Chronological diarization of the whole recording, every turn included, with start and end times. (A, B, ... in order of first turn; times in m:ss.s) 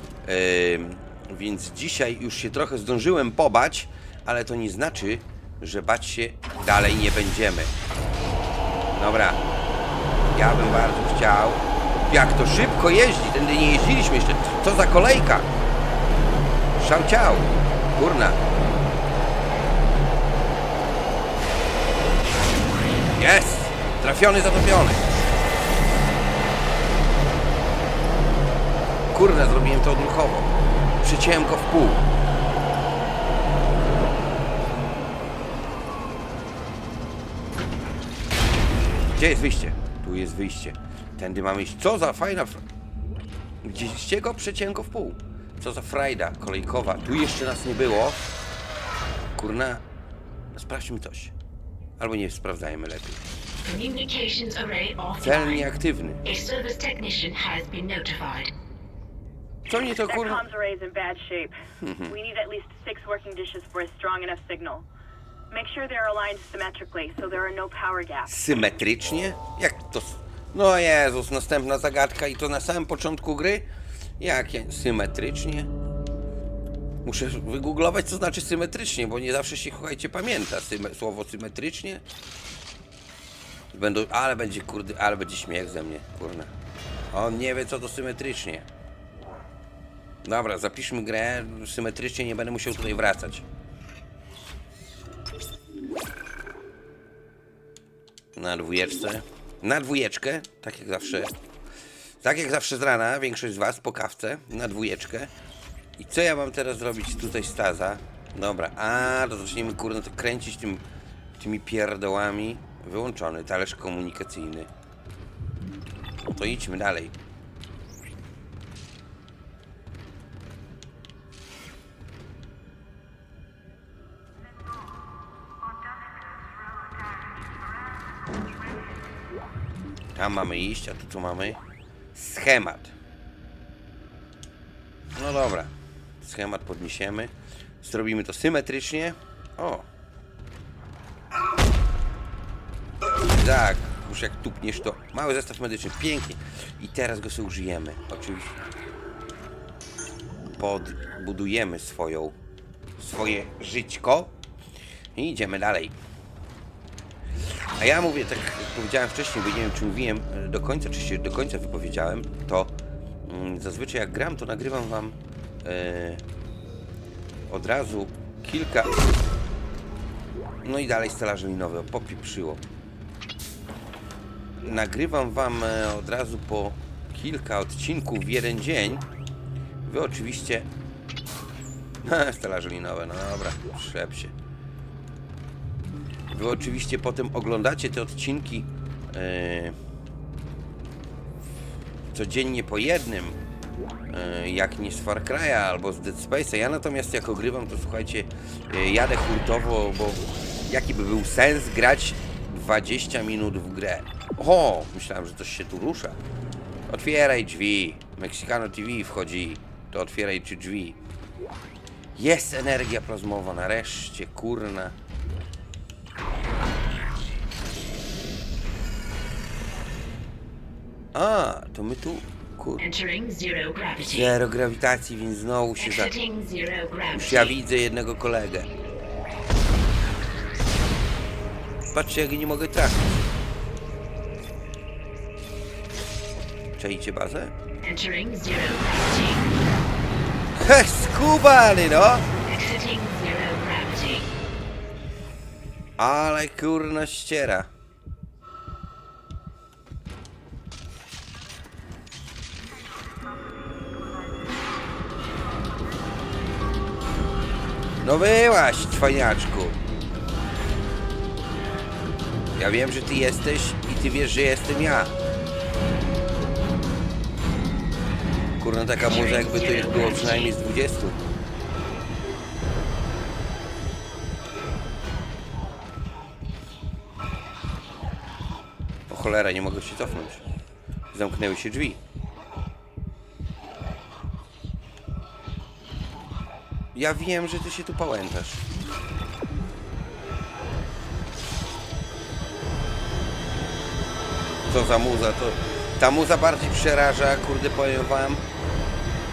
0:00.2-0:07.7 A
0:08.9-0:09.4 A
0:10.3-0:15.5 A
0:16.8-0:18.4 A
0:23.2-0:25.0 A
0:29.1-0:32.0 A
0:39.1-0:42.6 A
0:43.6-0:48.3 A
0:49.4-0:49.8 A
0:50.5-0:51.3 A
0:52.0-0:53.2 A
0:53.6-0:55.7 B
0:55.2-0:56.2 A
0:56.2-0:58.5 B
0:59.7-1:00.4 A
1:00.1-1:01.6 C
1:01.8-1:02.1 A
1:02.1-1:04.8 C
1:05.5-1:08.3 C
1:08.3-1:13.7 A
1:14.2-1:15.7 A
1:17.0-1:22.0 A
1:23.7-1:26.5 A
1:27.1-1:28.6 A
1:30.2-1:33.4 A
1:38.3-1:41.3 A
1:42.2-1:45.3 A
1:46.0-1:50.8 A
1:51.4-1:54.7 A
1:56.2-1:57.1 A
2:10.1-2:11.6 A
2:12.1-2:12.9 A
2:15.1-2:19.8 A
2:23.3-2:28.6 A
2:30.5-2:32.4 A
2:33.0-2:34.3 A
2:35.1-2:35.9 A
2:37.8-2:46.2 A
2:47.5-2:49.0 A
2:50.6-2:52.6 A
2:54.6-2:59.0 A
2:59.8-3:00.7 A
3:02.0-3:04.3 A
3:06.3-3:09.8 A
3:12.1-3:13.4 A
3:14.1-3:26.2 A
3:26.9-3:31.0 A
3:32.1-3:34.9 A
3:41.1-3:42.8 A
3:42.8-3:44.4 B
3:44.0-3:46.1 A
3:45.8-3:47.6 B
3:47.1-3:48.7 A
3:51.9-3:53.2 A
3:56.8-3:57.5 A
3:57.8-3:59.5 B
4:00.6-4:02.2 A
4:02.5-4:04.3 B
4:06.0-4:07.7 A
4:18.0-4:19.8 A
4:22.5-4:25.1 A
4:28.6-4:31.2 A
4:29.0-4:30.5 B
4:39.1-4:40.4 A
4:41.1-4:42.0 A
4:46.9-4:48.6 A
4:54.7-4:58.4 A